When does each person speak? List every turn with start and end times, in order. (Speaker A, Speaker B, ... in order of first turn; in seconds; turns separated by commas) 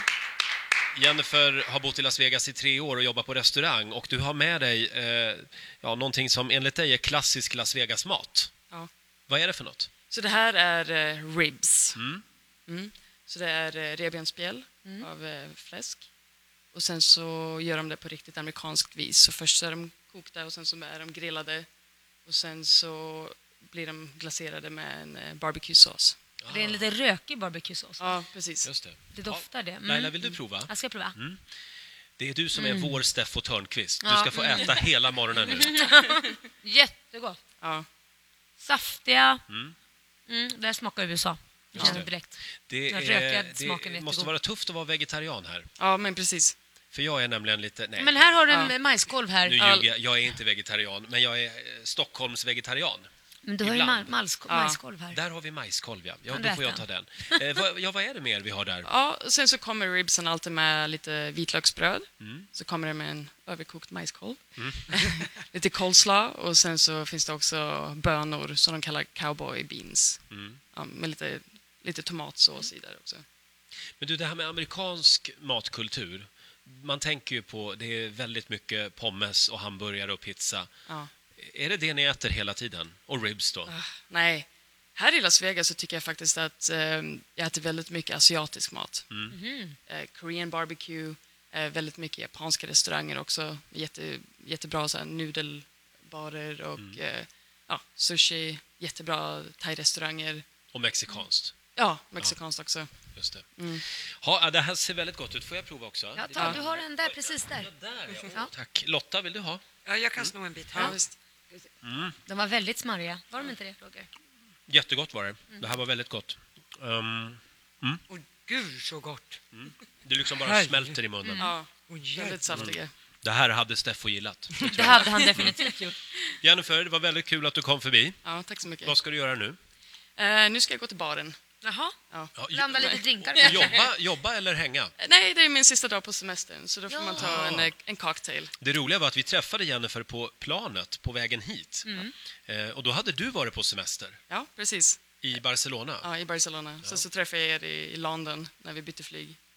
Speaker A: 0.9-8.5, Speaker A: 9.3-9.9, Speaker B: 10.1-12.0, Speaker A: 11.9-12.2, Speaker B: 12.7-16.1, Speaker B: 16.7-21.7, Speaker B: 22.3-26.2, Speaker A: 26.4-26.9, Speaker C: 26.5-28.2, Speaker B: 28.0-28.7, Speaker A: 28.6-31.4, Speaker C: 29.1-31.2, Speaker A: 32.2-35.8, Speaker C: 32.5-33.0, Speaker C: 34.0-37.4, Speaker B: 37.6-37.9, Speaker C: 38.6-39.4, Speaker A: 39.5-39.8, Speaker C: 40.3-44.3, Speaker A: 41.7-42.1, Speaker A: 42.7-45.7, Speaker B: 45.8-46.6, Speaker A: 46.9-48.2, Speaker C: 48.0-49.6, Speaker B: 48.5-48.8, Speaker A: 49.4-54.1, Speaker B: 49.5-49.9, Speaker C: 53.5-55.2, Speaker B: 54.5-54.8, Speaker A: 55.1-58.9, Speaker C: 56.3-56.8, Speaker B: 58.8-70.2, Speaker A: 62.2-62.5, Speaker A: 64.6-64.9, Speaker A: 70.3-70.6, Speaker B: 70.7-73.2, Speaker A: 74.0-80.7, Speaker A: 81.3-83.7, Speaker B: 83.7-89.1, Speaker A: 89.1-89.4, Speaker C: 89.3-89.8, Speaker B: 89.9-100.4, Speaker A: 100.7-101.6, Speaker B: 101.8-102.9, Speaker A: 103.2-103.5, Speaker B: 103.6-103.8, Speaker A: 104.2-109.6, Speaker C: 106.2-108.5, Speaker D: 109.9-111.7, Speaker B: 110.7-111.2, Speaker A: 111.8-112.2, Speaker C: 112.3-114.1, Speaker A: 114.7-118.0, Speaker D: 118.1-119.4, Speaker A: 119.5-121.5, Speaker D: 120.4-121.0, Speaker C: 121.2-121.5, Speaker B: 121.4-122.9, Speaker D: 121.9-122.6, Speaker A: 122.5-125.5, Speaker C: 124.6-125.9, Speaker D: 124.6-124.9, Speaker A: 126.3-128.2, Speaker B: 128.2-128.9, Speaker A: 128.8-129.6, Speaker B: 130.2-131.4, Speaker C: 131.6-131.9, Speaker B: 132.1-132.9, Speaker A: 132.4-134.9, Speaker C: 132.5-133.9, Speaker B: 135.0-138.5, Speaker C: 136.9-137.5, Speaker A: 137.1-137.7, Speaker A: 138.6-144.2, Speaker C: 141.9-142.1, Speaker B: 144.3-145.0, Speaker A: 145.2-146.1, Speaker B: 146.0-149.4